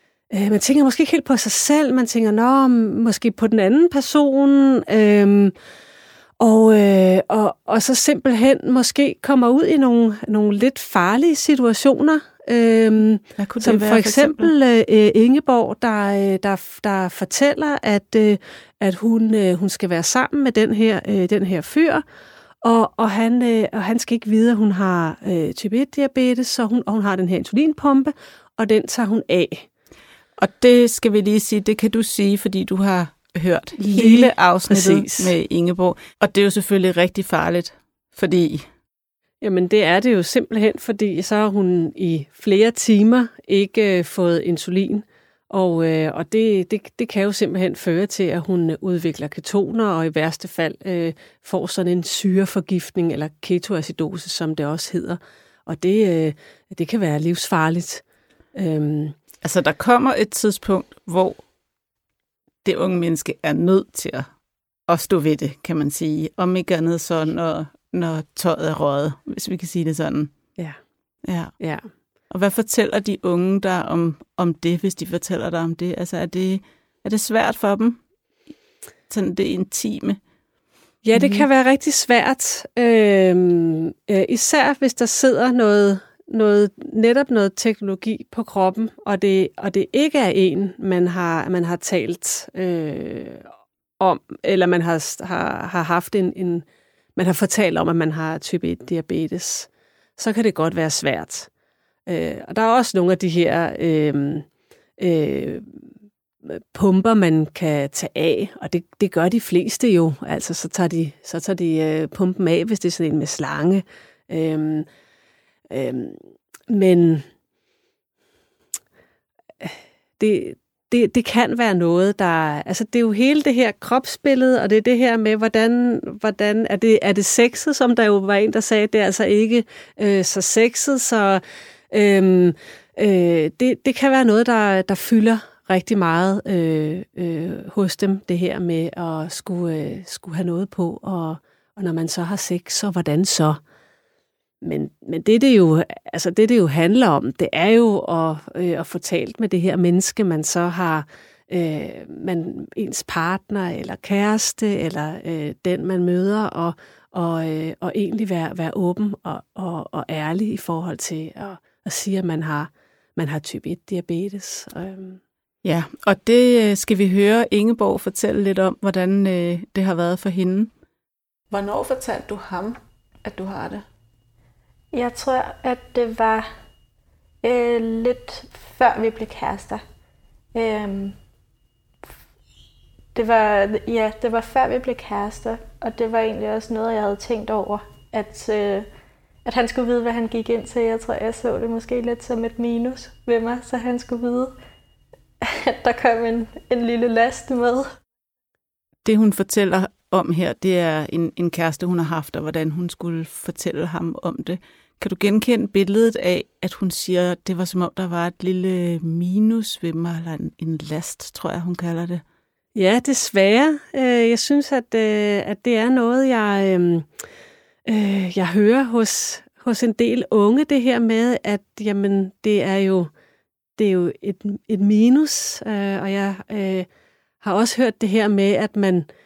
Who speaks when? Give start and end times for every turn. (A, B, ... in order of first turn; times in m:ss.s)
0:00.3-0:05.5 A
0:06.4-0:22.0 A
0:13.4-0:14.5 B
0:22.6-0:29.7 A
0:30.4-0:38.7 B
0:33.8-0:35.3 A
0:39.4-0:59.2 A
0:59.4-1:01.4 B
1:02.6-1:04.3 B
1:04.9-1:10.3 B
1:11.2-1:11.5 B
1:11.6-1:11.9 A
1:12.3-1:18.0 B
1:19.1-1:20.2 B
1:21.0-1:41.5 A
1:21.2-1:21.4 B
1:42.1-1:44.5 A
1:45.0-1:45.8 A
1:46.4-1:54.9 A
1:55.7-1:57.2 A
1:59.6-2:23.6 A
2:24.6-2:45.2 A
2:45.6-2:50.7 B
2:51.5-2:53.8 B
2:54.9-2:56.5 C
2:57.4-2:59.8 C
3:00.5-3:01.2 C
3:03.1-3:08.9 C
3:09.4-3:14.5 C
3:15.4-3:17.9 C
3:19.0-3:32.2 B
3:32.8-3:37.1 A
3:37.9-3:43.1 A
3:43.8-3:46.9 A
3:47.4-3:49.1 A